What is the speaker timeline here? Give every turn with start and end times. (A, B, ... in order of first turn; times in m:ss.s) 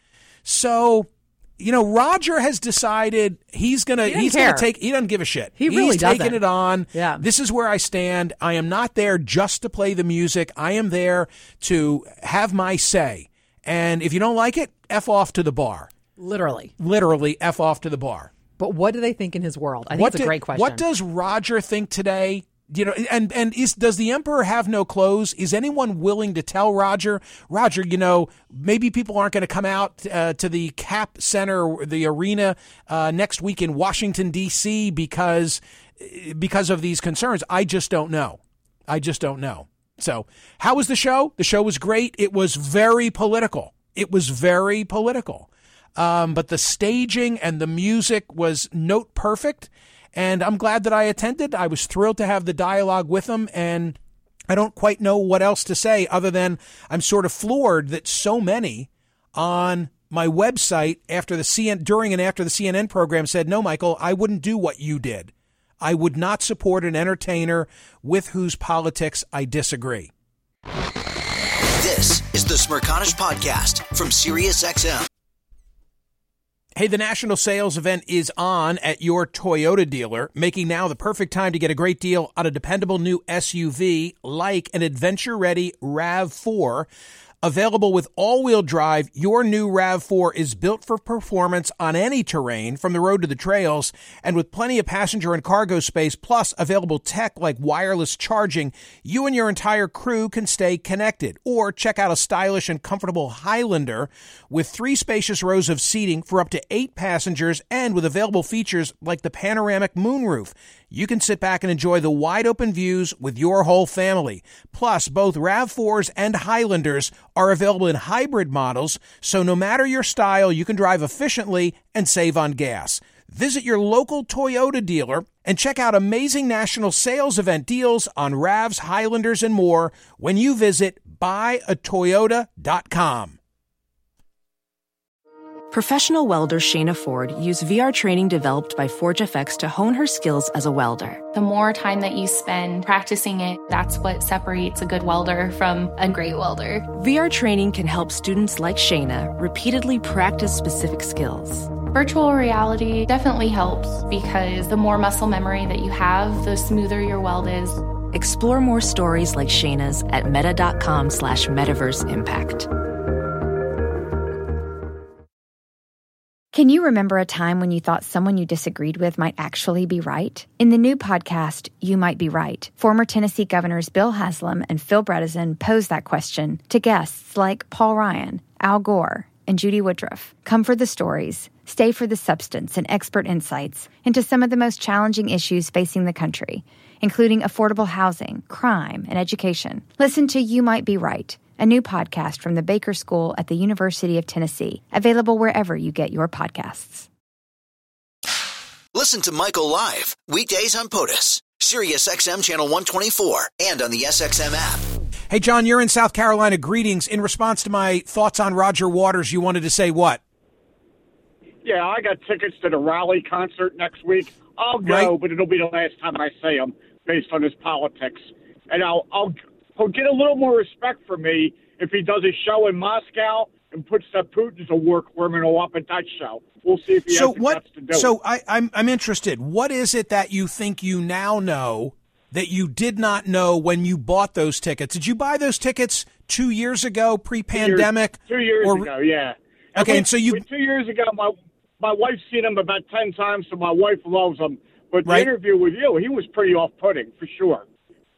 0:00.4-0:15.9 A
0:04.0-0:04.7 B
0:05.6-0:07.2 B
0:16.2-0:16.7 B
0:16.8-0:18.3 A
0:18.6-0:20.8 B
0:19.9-0:54.0 A
0:54.5-1:10.1 A
1:11.8-1:15.1 C
1:16.8-1:26.9 A
1:27.4-2:13.4 A
2:15.7-2:21.2 D
2:21.3-2:26.9 E
2:26.9-2:31.7 D
2:31.9-2:37.8 E
2:38.1-2:42.7 D
2:46.5-3:17.1 F
3:18.9-3:24.9 C
3:25.3-3:30.2 A
3:31.6-3:48.1 G
3:34.8-3:35.1 A
3:47.1-3:58.9 A
3:57.5-4:07.6 G
3:59.7-4:00.4 A